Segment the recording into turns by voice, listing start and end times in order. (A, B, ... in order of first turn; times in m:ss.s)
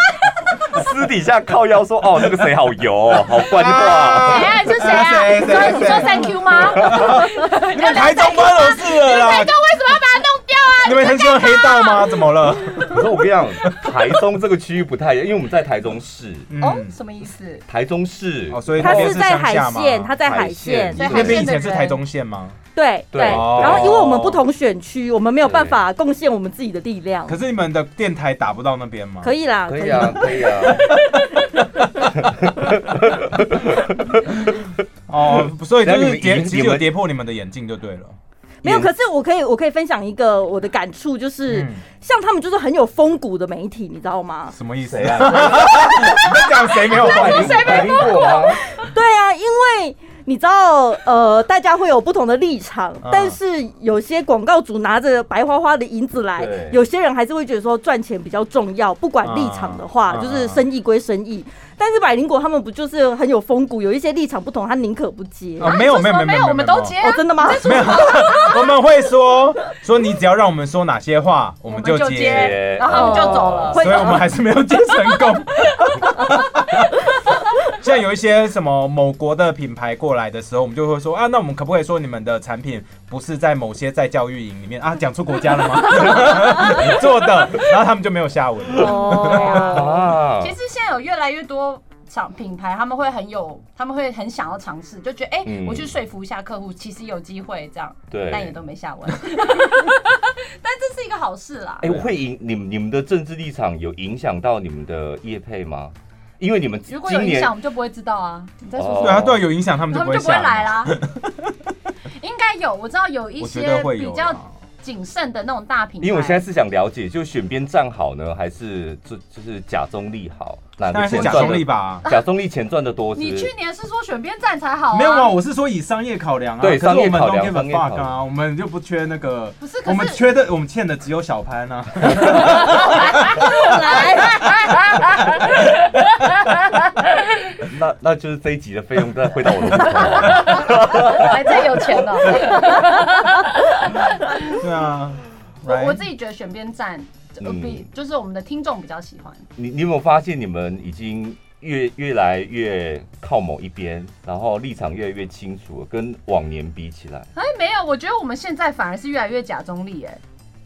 0:00.6-0:04.6 A
0:03.5-0:09.5 B
0:04.2-0:12.2 C
0:06.7-0:07.1 A
0:10.8-0:13.1 B
0:12.8-0:16.5 A
0:13.6-0:13.9 B
0:16.5-0:16.9 B
0:16.6-0:17.6 C
0:17.7-0:19.2 A
0:18.5-0:20.1 B
0:18.8-0:21.1 D
0:20.2-0:21.6 A
0:21.0-0:22.0 C
0:21.0-0:22.6 B
0:22.7-0:27.4 D
0:23.1-0:24.4 A
0:23.2-0:24.0 B
0:25.4-0:25.8 A
0:27.3-0:29.3 B
0:29.2-0:30.8 D
0:29.7-0:30.9 A
0:32.1-0:34.7 A
0:35.1-0:38.2 B
0:35.8-0:36.9 A
0:38.6-0:38.9 A
0:38.6-0:44.5 D
0:41.5-0:41.8 B
0:44.5-0:48.1 B
0:44.8-0:48.6 A
0:46.1-0:48.6 C
0:48.7-1:05.7 D
0:53.0-0:53.4 B
0:56.4-0:56.8 A
0:59.2-1:00.6 B
1:05.6-1:07.0 B
1:05.6-1:08.8 C
1:07.0-1:08.1 D
1:07.6-1:12.7 B
1:11.7-1:14.1 C
1:12.2-1:13.9 A
1:12.9-1:14.3 D
1:13.7-1:17.1 B
1:17.6-1:29.8 B
1:26.0-1:26.5 C
1:28.8-1:29.8 D
1:28.9-1:30.5 A
1:29.0-1:42.0 C
1:35.4-1:35.9 A
1:38.1-1:38.6 A
1:41.8-1:47.5 A
1:46.9-1:50.9 C
1:48.7-1:49.4 A
1:49.0-1:51.5 B
1:52.2-1:56.4 C
1:53.4-1:54.5 B
1:56.0-2:03.5 A
2:00.9-2:02.0 B
2:01.0-2:02.3 C
2:03.1-2:05.3 C
2:04.9-2:13.7 B
2:06.6-2:08.1 A
2:09.6-2:10.2 C
2:12.4-2:17.6 C
2:13.5-2:14.3 D
2:17.6-2:22.0 A
2:20.2-2:24.6 C
2:24.6-2:26.0 B
2:25.6-2:29.4 C
2:27.4-2:27.8 A
2:29.6-2:37.3 A
2:37.4-2:40.2 C